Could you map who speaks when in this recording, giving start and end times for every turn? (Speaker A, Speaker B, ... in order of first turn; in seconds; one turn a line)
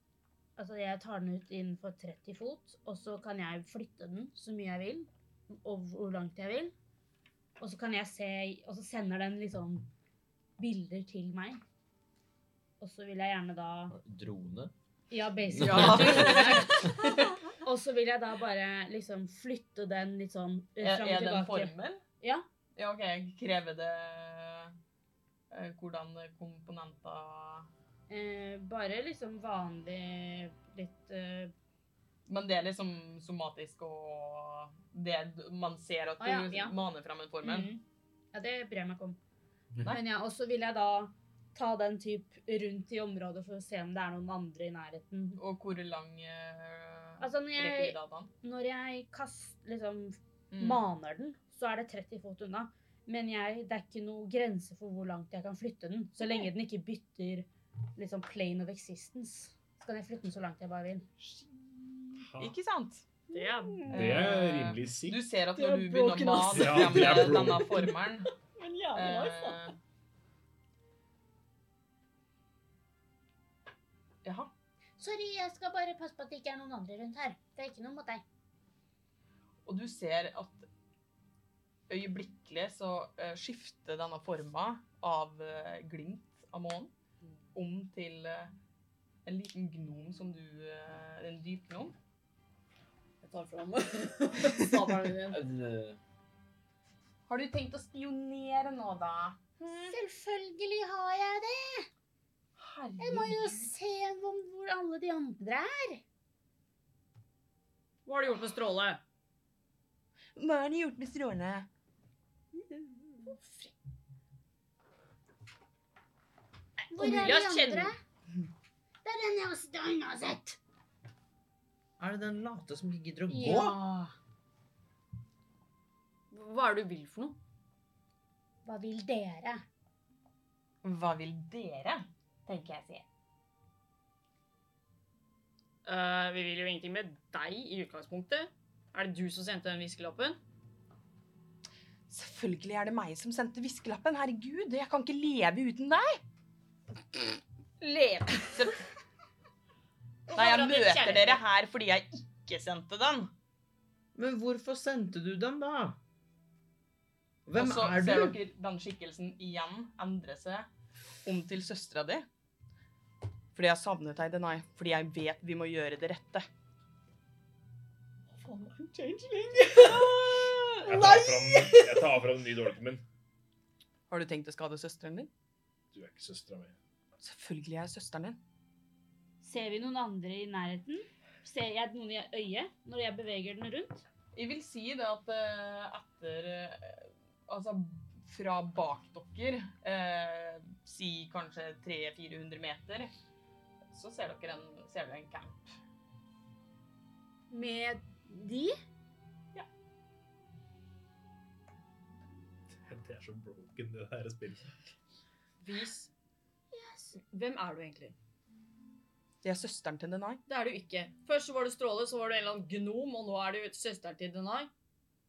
Speaker A: 0.6-6.7
Speaker A: 7.6-9.9
Speaker A: 10.6-11.6
Speaker A: 12.8-13.9
Speaker B: 13.9-14.7
Speaker A: 15.1-22.4
Speaker B: 15.5-16.9
Speaker C: 15.6-17.3
Speaker C: 20.8-22.0
Speaker C: 22.8-24.7
Speaker C: 25.5-27.7
Speaker A: 28.1-31.5
Speaker C: 32.3-37.7
Speaker A: 36.2-36.7
Speaker A: 37.4-37.8
Speaker A: 38.3-39.2
Speaker A: 39.8-45.4
Speaker C: 45.4-48.3
Speaker A: 47.2-61.1
Speaker C: 50.5-50.8
Speaker D: 62.2-62.5
Speaker C: 62.4-63.1
Speaker E: 63.3-64.1
Speaker A: 63.3-63.8
Speaker C: 63.9-68.3
Speaker D: 63.9-65.2
Speaker E: 65.6-67.5
Speaker D: 66.5-67.8
Speaker E: 68.6-69.5
Speaker C: 68.9-69.8
Speaker C: 74.2-74.5
Speaker A: 75.0-78.2
Speaker C: 79.7-80.7
Speaker C: 81.9-86.9
Speaker C: 87.5-88.5
Speaker C: 89.2-91.9
Speaker E: 93.2-95.4
Speaker B: 95.3-96.0
Speaker C: 97.3-99.5
Speaker A: 99.7-101.9
Speaker C: 102.6-103.7
Speaker A: 103.0-106.0
Speaker E: 108.0-109.0
Speaker C: 110.3-111.7
Speaker A: 112.5-113.3
Speaker A: 116.9-118.0
Speaker E: 116.9-118.0
Speaker A: 119.0-120.6
Speaker B: 122.0-123.8
Speaker A: 123.3-124.1
Speaker E: 126.3-127.4
Speaker A: 128.6-129.6
Speaker C: 130.8-133.0
Speaker E: 135.8-140.4
Speaker C: 142.1-146.2
Speaker C: 147.8-148.8
Speaker E: 150.3-151.4
Speaker C: 150.3-153.3
Speaker B: 154.1-156.0
Speaker B: 157.4-158.4
Speaker C: 157.5-160.7
Speaker C: 161.2-162.2
Speaker C: 163.5-166.5
Speaker E: 168.4-172.2
Speaker D: 170.8-173.0
Speaker C: 174.1-175.3
Speaker D: 175.9-176.8
Speaker C: 177.2-178.4
Speaker A: 179.4-184.1
Speaker C: 184.3-193.1
Speaker C: 193.9-195.8
Speaker A: 197.5-198.8
Speaker D: 202.7-204.7
Speaker E: 205.6-206.1
Speaker A: 206.7-207.2
Speaker E: 207.2-208.2
Speaker C: 209.4-210.4
Speaker E: 210.5-214.7